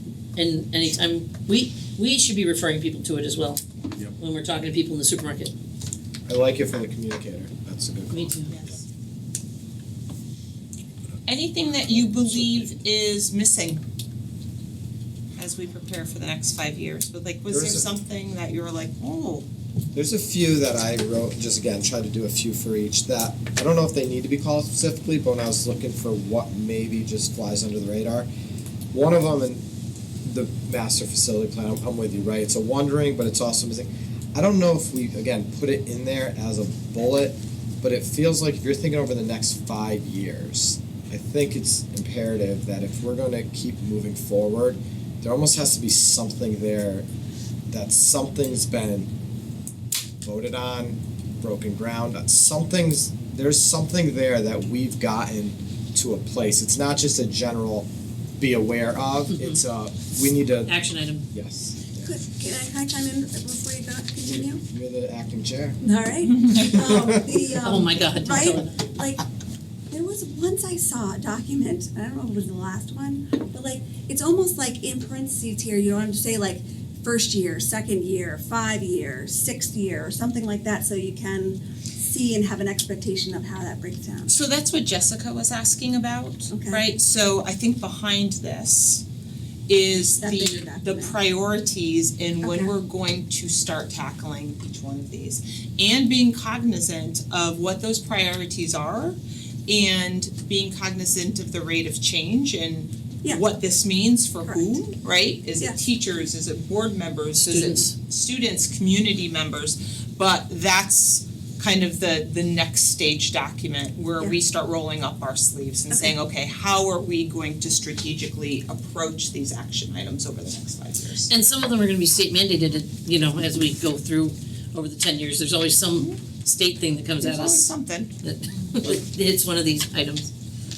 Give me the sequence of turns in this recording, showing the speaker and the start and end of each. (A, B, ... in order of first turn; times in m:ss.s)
0:00.3-0:03.6 A
0:04.1-0:05.5 A
0:06.2-0:08.6 B
0:08.1-0:08.5 A
0:08.5-0:08.8 C
0:11.2-0:13.8 C
0:15.4-0:19.5 C
0:17.5-0:17.8 B
0:19.9-0:28.3 B
0:28.9-0:29.6 B
0:30.2-0:47.0 B
0:47.7-0:49.1 B
0:50.2-1:00.7 B
0:59.3-0:59.6 A
1:00.6-1:01.2 A
1:01.3-1:02.1 B
1:02.0-1:04.6 D
1:04.7-1:05.8 B
1:05.8-1:09.2 D
1:06.8-1:07.2 B
1:07.6-1:08.8 A
1:09.9-1:24.3 D
1:24.3-1:29.0 C
1:26.5-1:26.8 D
1:29.7-2:01.3 C
1:30.2-1:31.2 D
1:32.4-1:32.7 D
1:44.4-1:44.9 D
1:47.4-1:47.9 A
2:01.3-2:07.7 A
2:07.2-2:08.1 C
2:08.2-2:10.3 A